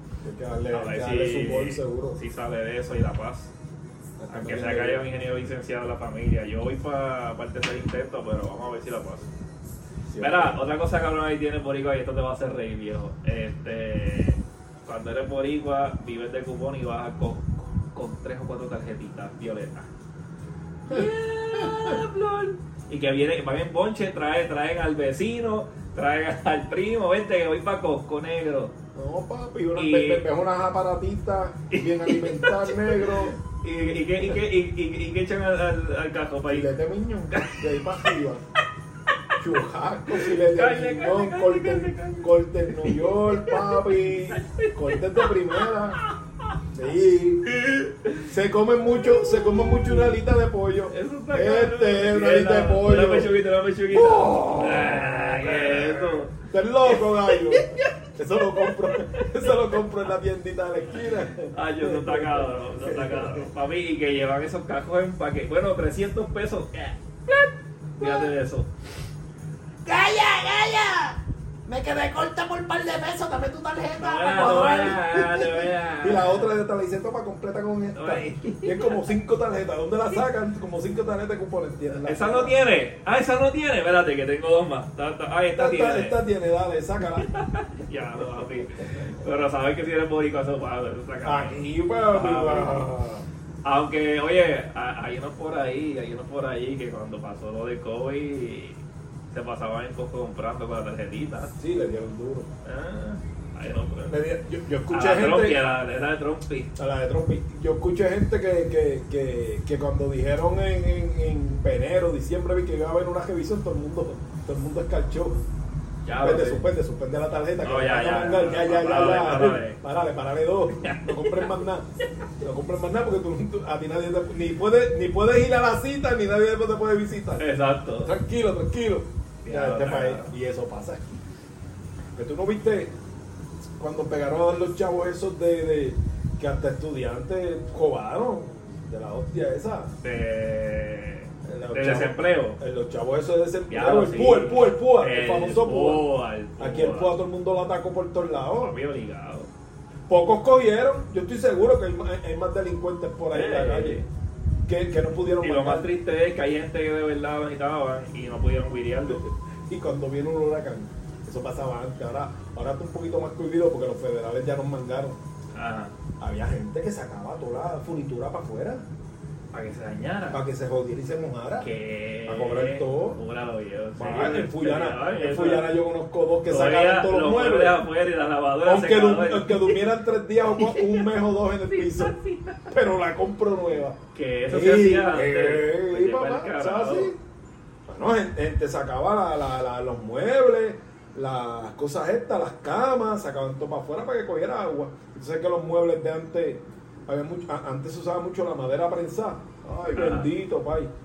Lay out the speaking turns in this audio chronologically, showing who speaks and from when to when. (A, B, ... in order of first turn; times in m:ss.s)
0:00.2-0:02.2 A
0:00.7-0:03.5 B
0:04.2-0:05.0 A
0:04.3-0:09.3 B
0:10.1-0:10.6 A
0:10.2-0:19.9 B
0:20.9-0:22.0 A
0:20.9-0:28.7 B
0:28.9-0:33.4 A
0:29.7-0:30.2 B
0:31.7-0:36.7 B
0:36.5-0:38.4 A
0:37.3-0:38.1 B
0:39.4-0:46.0 A
0:40.1-0:46.5 B
0:46.7-0:47.5 A
0:47.4-0:48.3 B
0:48.2-0:53.3 A
0:49.1-0:50.1 B
0:50.9-0:56.3 B
0:53.9-1:03.4 A
0:56.8-0:59.6 B
1:01.4-1:07.0 B
1:08.0-1:08.7 B
1:08.0-1:08.3 C
1:09.8-1:15.0 C
1:14.0-1:16.5 B
1:14.3-1:15.5 A
1:16.0-1:22.5 A
1:17.9-1:19.0 B
1:22.0-1:26.2 B
1:25.5-1:27.3 A
1:27.2-1:32.9 B
1:28.2-1:28.6 A
1:31.2-1:33.2 A
1:33.6-1:41.5 B
1:41.6-1:42.5 A
1:42.6-1:44.2 B
1:44.1-1:45.6 A
1:44.9-1:46.7 B
1:46.8-1:55.4 A
1:56.0-1:56.6 B
1:56.2-2:01.9 A
1:57.6-1:59.8 B
2:00.8-2:01.6 B
2:02.4-2:07.4 A
2:07.4-2:08.1 B
2:08.0-2:11.2 A
2:09.4-2:10.3 B
2:12.2-2:12.9 A
2:13.8-2:19.9 A
2:20.0-2:22.6 B
2:21.4-2:26.0 A
2:23.7-2:27.2 B
2:26.6-2:28.8 A
2:28.6-2:29.5 B
2:30.1-2:34.0 A
2:33.3-2:34.1 B
2:34.6-2:35.9 A
2:35.4-2:39.2 B
2:39.0-2:45.2 A
2:45.5-2:45.9 B
2:46.2-2:48.8 A
2:49.5-2:50.4 B
2:50.3-2:51.7 A
2:51.6-2:55.7 B
2:52.2-2:53.2 A
2:54.0-2:57.8 A
2:56.5-2:59.8 B
2:58.6-3:02.2 A
3:00.6-3:01.1 B
3:01.7-3:02.7 B
3:02.7-3:07.2 A
3:04.1-3:07.1 B
3:07.9-3:20.9 A
3:19.8-3:20.3 B